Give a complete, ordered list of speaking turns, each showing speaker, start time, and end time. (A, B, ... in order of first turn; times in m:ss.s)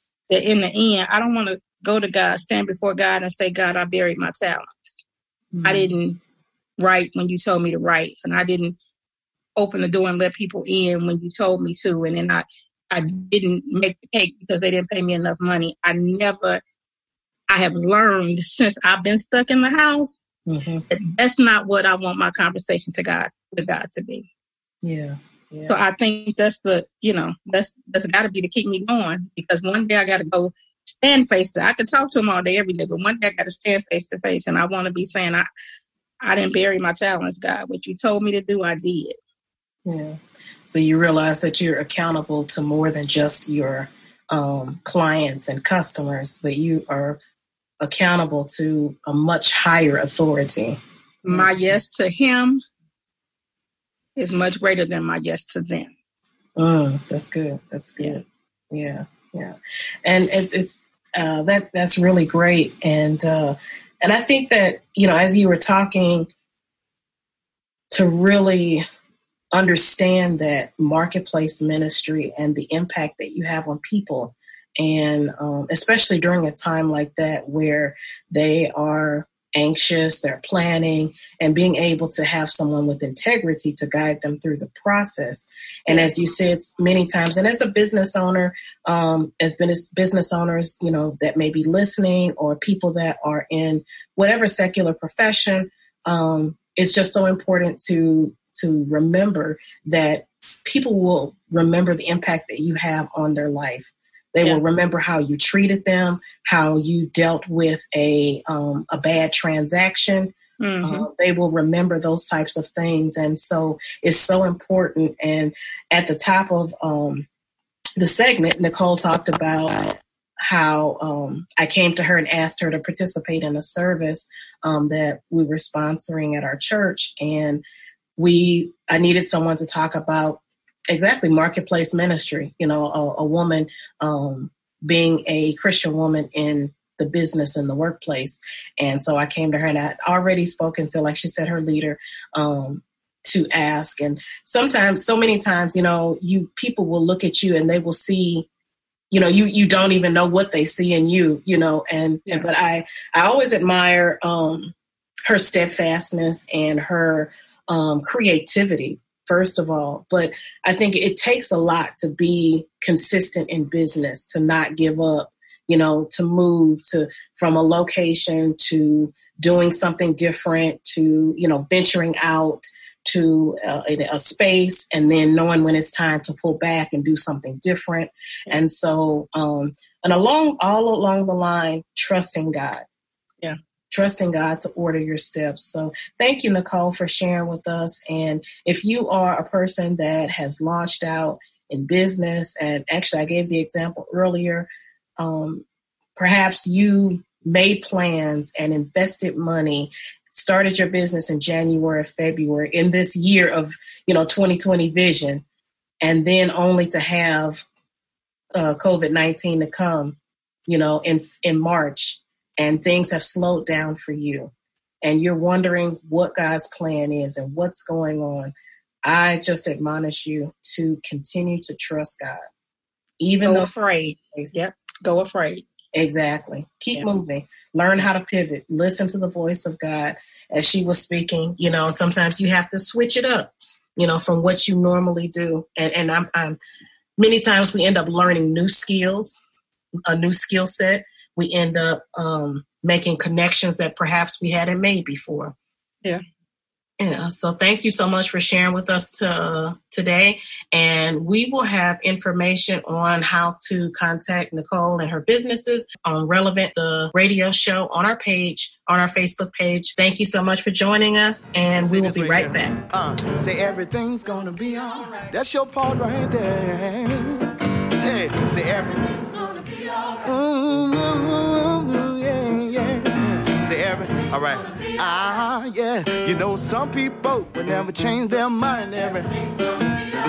0:00.3-0:05.0 A
0:05.5-0:05.9 B
0:05.6-0:06.2 A
0:06.8-0:08.8 A
0:09.6-0:16.6 A
0:17.5-0:20.2 A
0:20.5-0:20.8 B
0:20.9-0:24.2 A
0:24.8-0:25.8 B
0:25.7-0:35.5 A
0:36.2-0:39.2 A
0:39.8-0:47.2 B
0:47.8-0:50.8 B
0:51.2-0:52.6 A
0:54.2-0:55.9 A
0:56.6-1:06.3 B
1:07.9-1:08.8 B
1:09.5-1:57.2 B
1:50.6-1:51.1 A
1:58.0-2:07.6 B
2:08.2-2:28.5 B
2:29.1-2:34.7 B
2:35.3-3:02.8 B
3:03.9-3:14.7 B
3:15.2-3:15.6 B
3:16.2-3:25.4 B
3:26.0-3:27.6 B
3:28.5-3:34.5 B
3:35.0-3:38.5 B
3:39.0-3:42.4 B
3:43.2-3:43.7 B
3:43.4-3:45.6 A
3:45.9-3:56.6 B
3:57.2-3:59.4 B
4:00.1-4:05.5 B
4:07.0-4:22.7 B
4:21.7-4:29.3 C
4:30.2-4:39.3 C